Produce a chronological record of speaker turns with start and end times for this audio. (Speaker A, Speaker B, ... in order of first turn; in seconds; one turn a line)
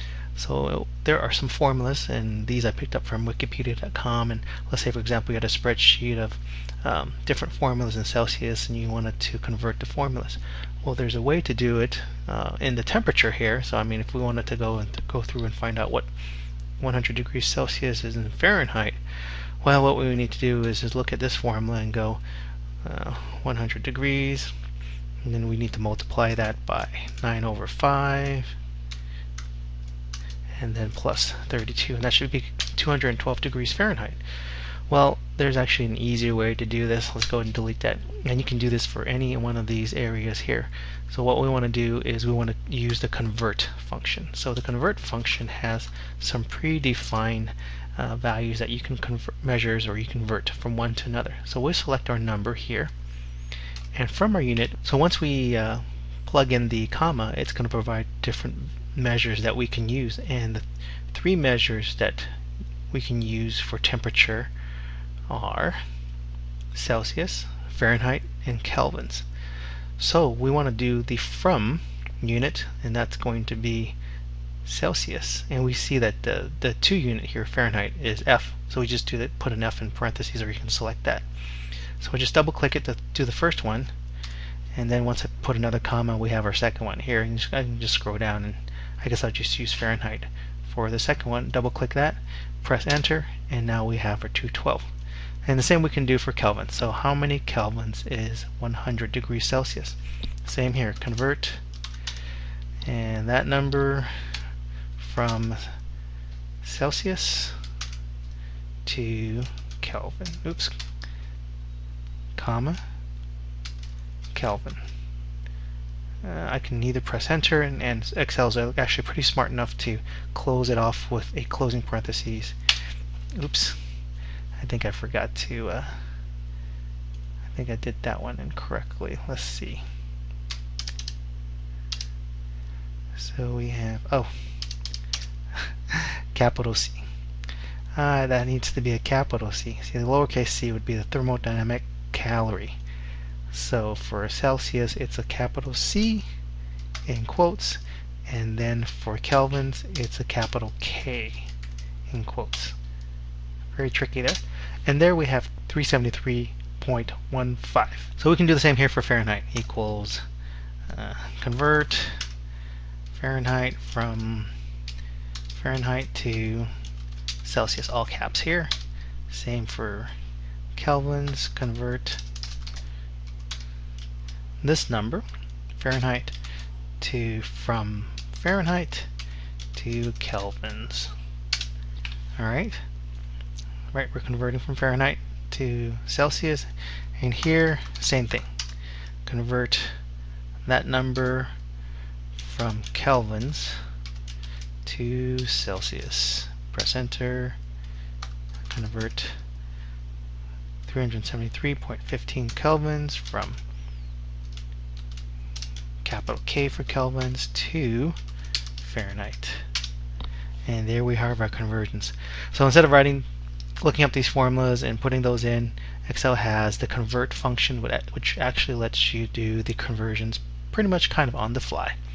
Speaker A: 0.3-16.1
Speaker A: 16.8-19.0
Speaker A: 19.6-22.2
Speaker A: 22.8-24.5
Speaker A: 25.2-28.5
Speaker A: 30.6-34.2
Speaker A: 34.9-52.9
Speaker A: 53.9-62.3
Speaker A: 62.9-64.5
Speaker A: 65.3-65.8
Speaker A: 66.7-69.2
Speaker A: 70.0-74.0
Speaker A: 74.7-81.2
Speaker A: 82.0-83.9
Speaker A: 84.7-94.9
Speaker A: 95.5-101.6
Speaker A: 102.8-104.1
Speaker A: 105.0-105.6
Speaker A: 106.6-107.5
Speaker A: 108.8-110.8
Speaker A: 112.3-112.8
Speaker A: 114.3-114.8
Speaker A: 116.2-122.5
Speaker A: 123.3-123.8
Speaker A: 124.6-125.9
Speaker A: 127.5-129.8
Speaker A: 133.1-134.3
Speaker A: 135.5-137.0
Speaker A: 137.9-142.8
Speaker A: 143.5-146.2
Speaker A: 147.1-151.5
Speaker A: 152.1-152.8
Speaker A: 153.7-160.2
Speaker A: 160.9-162.2
Speaker A: 163.1-164.5
Speaker A: 165.5-166.7
Speaker A: 167.4-168.7
Speaker A: 169.3-170.1
Speaker A: 170.7-172.2
Speaker A: 174.6-175.2
Speaker A: 175.8-176.3
Speaker A: 177.0-179.1
Speaker A: 179.7-181.1
Speaker A: 182.4-182.8
Speaker A: 183.9-188.5
Speaker A: 189.2-190.0
Speaker A: 190.7-191.5
Speaker A: 192.3-193.8
Speaker A: 194.8-197.6
Speaker A: 198.7-199.4
Speaker A: 200.8-203.6
Speaker A: 206.0-208.2
Speaker A: 208.8-209.6
Speaker A: 210.7-213.3
Speaker A: 213.8-222.0